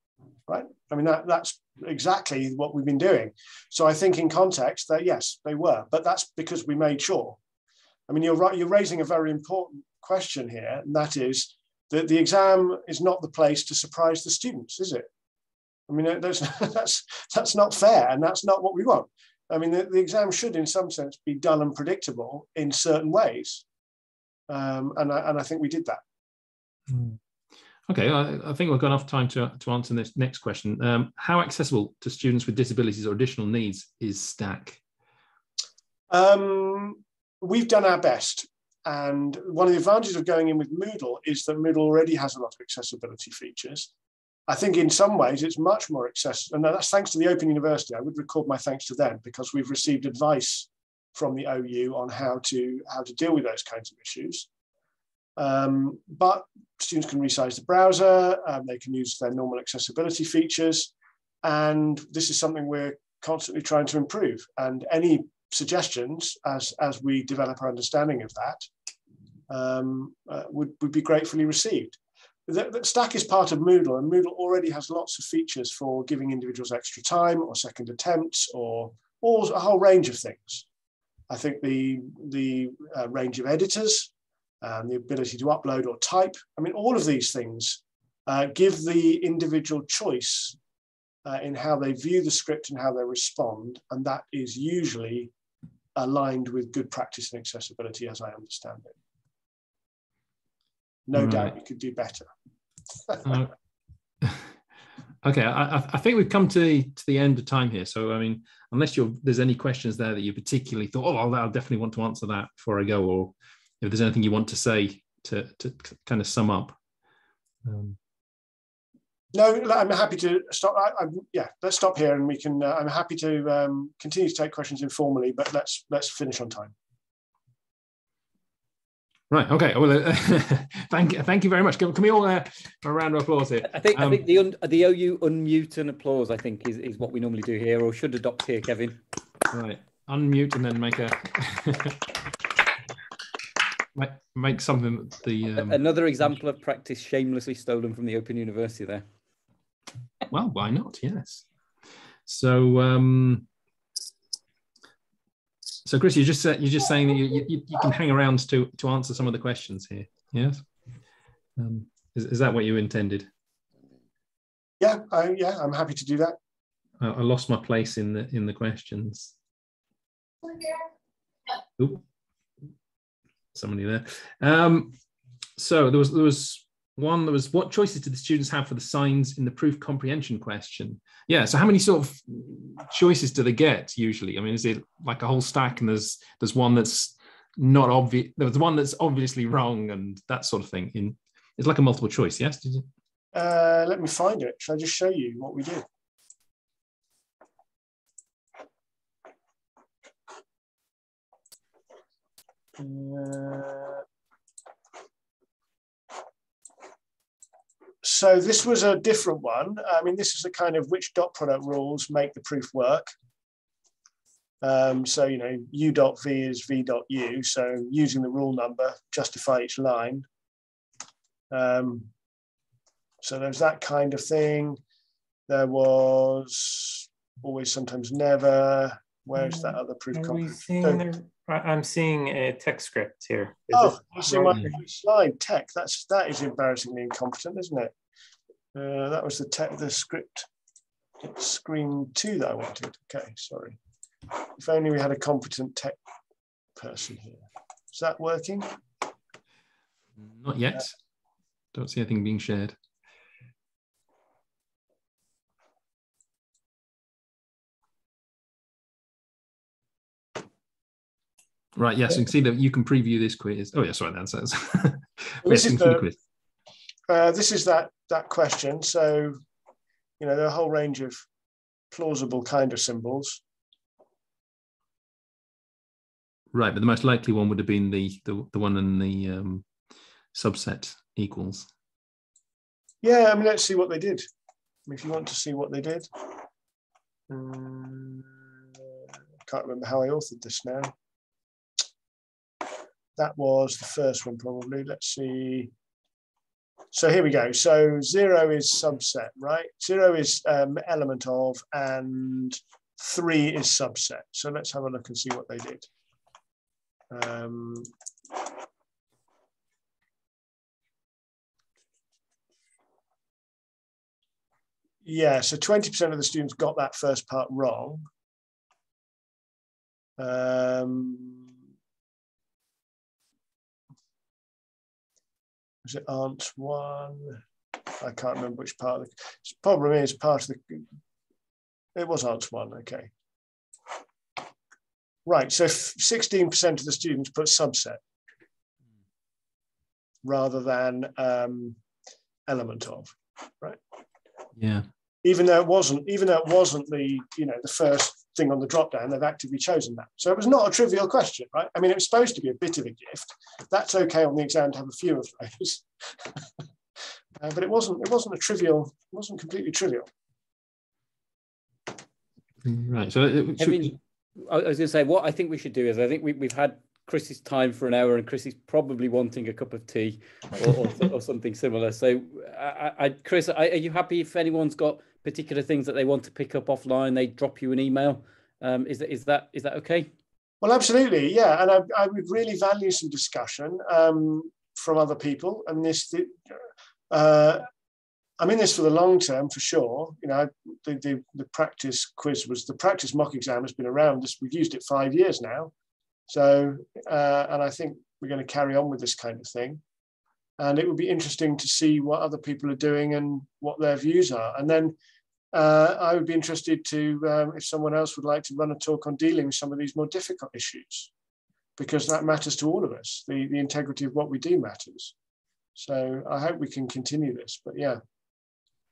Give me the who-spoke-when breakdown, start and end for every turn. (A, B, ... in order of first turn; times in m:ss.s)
0:00.5-0:07.4 A
0:08.1-0:15.1 A
0:15.9-0:23.6 A
0:24.5-0:26.0 A
0:26.9-0:27.2 B
0:27.9-0:34.8 B
0:36.1-0:43.9 A
0:44.5-0:54.5 A
0:55.4-1:00.9 A
1:01.4-1:08.7 A
1:09.5-1:20.7 A
1:21.3-1:24.1 A
1:24.6-1:30.6 A
1:31.2-1:35.3 A
1:36.0-1:39.0 A
1:41.1-1:42.3 A
1:41.2-1:41.5 B
1:43.1-1:43.4 A
1:43.2-1:43.5 B
1:44.2-1:44.5 B
1:45.2-1:56.8 B
1:57.6-1:58.0 B
1:59.3-2:06.7 A
2:09.3-2:14.2 B
2:13.7-2:19.0 C
2:19.5-2:22.1 B
2:24.0-2:25.8 B
2:25.6-2:29.0 C
2:30.3-2:31.4 B
2:32.3-2:33.5 B
2:35.8-2:40.6 B
2:41.6-2:43.3 B
2:44.8-2:46.4 A
2:47.0-2:49.3 B
2:53.5-2:55.0 B
2:55.6-3:12.9 B
3:13.3-3:15.8 A
3:22.8-3:24.0 A
3:28.0-3:33.1 A
3:34.6-3:40.3 A
3:41.5-3:42.1 A
3:43.2-3:44.8 A
3:45.5-3:51.1 A
3:50.1-3:54.8 D
3:53.7-3:57.9 A
3:58.7-4:00.5 A
4:01.2-4:06.0 A
4:06.8-4:08.7 A
4:10.2-4:10.9 B
4:11.7-4:12.8 B
4:21.8-4:26.1 B
4:25.4-4:26.1 A
4:27.1-4:29.4 A
4:30.2-4:31.3 A
4:31.9-4:33.4 A
4:36.5-4:39.7 B
4:40.3-4:41.7 B
4:43.0-4:44.3 A
4:44.9-4:46.4 A
4:47.3-4:50.9 A
4:53.2-4:55.7 A
4:56.9-5:05.9 A
5:07.1-5:07.9 A
5:15.0-5:18.1 A
5:20.2-5:21.5 A
5:25.8-5:30.9 A
5:32.0-5:33.1 A
5:35.3-5:38.0 A
5:40.2-5:41.8 A
5:42.5-5:43.8 A
5:44.6-5:44.9 B
5:45.2-5:56.6 A
5:57.4-6:00.1 A
6:02.6-6:04.0 B
6:03.6-6:20.1 C
6:20.6-6:26.5 A
6:27.1-6:27.6 A
6:28.4-6:35.7 A
6:36.3-6:39.8 A
6:40.6-6:45.0 A
6:45.5-6:51.1 A
6:51.8-6:55.1 A
6:55.8-6:58.0 A